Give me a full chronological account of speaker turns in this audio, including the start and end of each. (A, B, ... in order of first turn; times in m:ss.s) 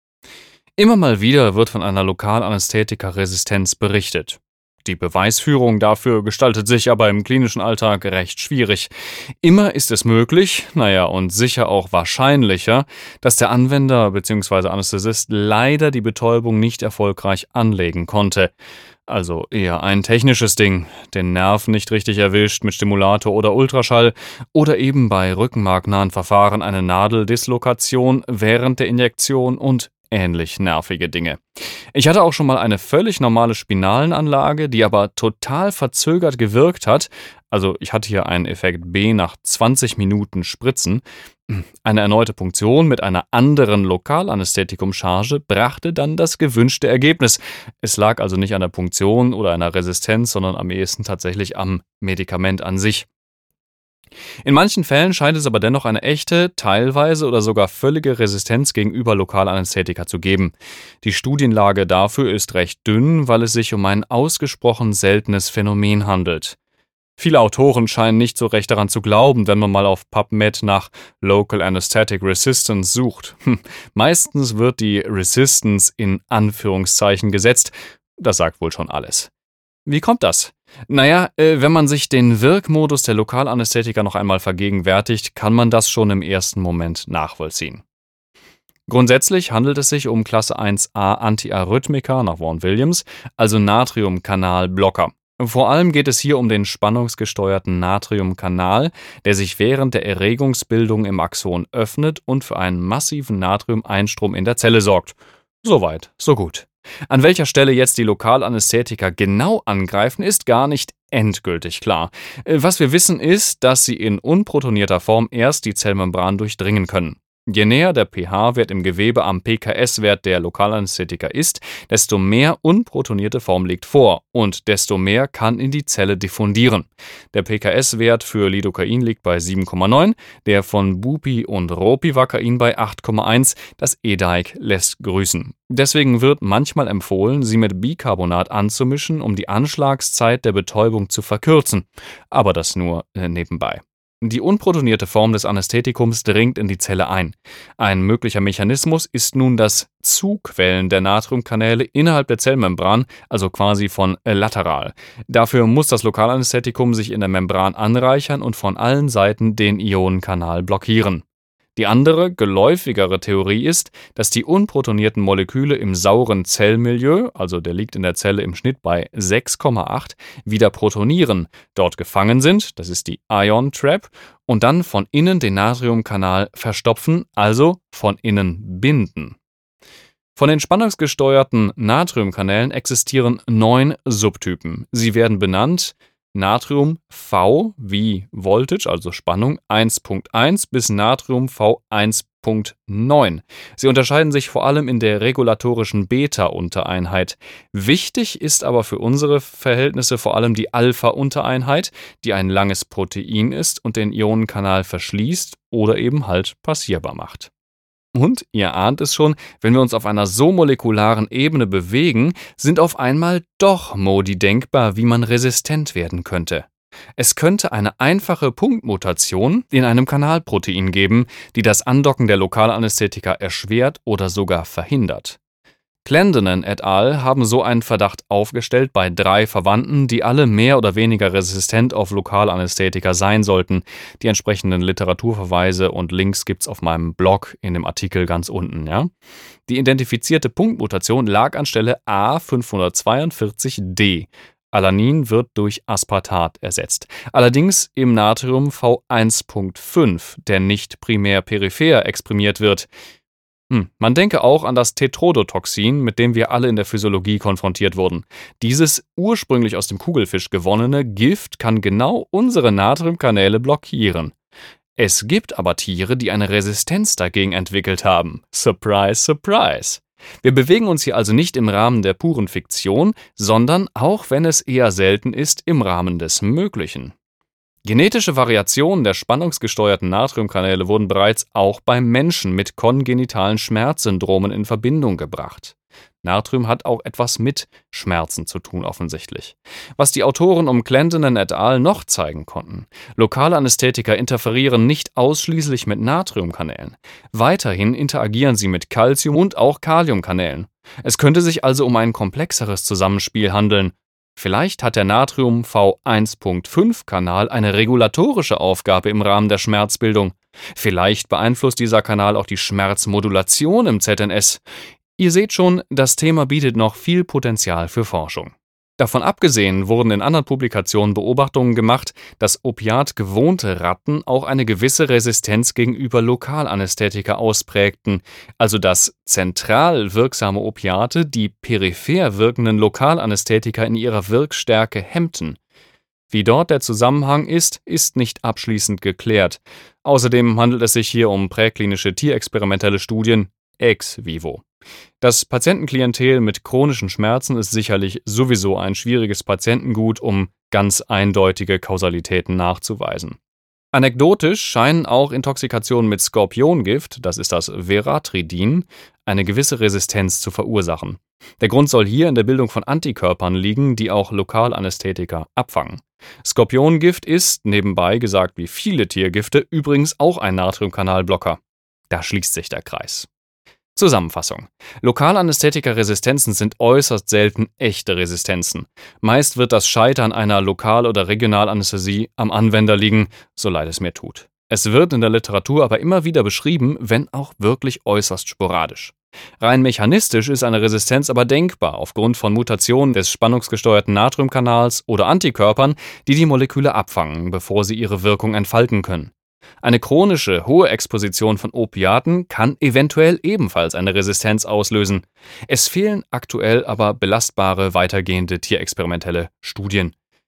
0:00.8-0:08.9 A
0:09.4-0:18.5 A
0:19.1-0:31.4 A
0:31.9-0:53.1 A
0:54.4-1:06.6 A
1:07.2-1:19.3 A
1:19.8-1:27.8 A
1:28.9-2:41.2 A
2:41.8-2:59.4 A
3:00.3-3:27.5 A
3:28.1-3:45.4 A
3:46.0-3:59.1 A
3:59.7-4:12.9 A
4:13.7-4:24.3 A
4:25.0-4:37.1 A
4:37.8-5:14.6 A
5:15.2-5:35.6 A
5:36.3-5:44.6 A
5:45.2-5:53.4 A
5:53.9-6:13.3 A
6:14.0-6:50.1 A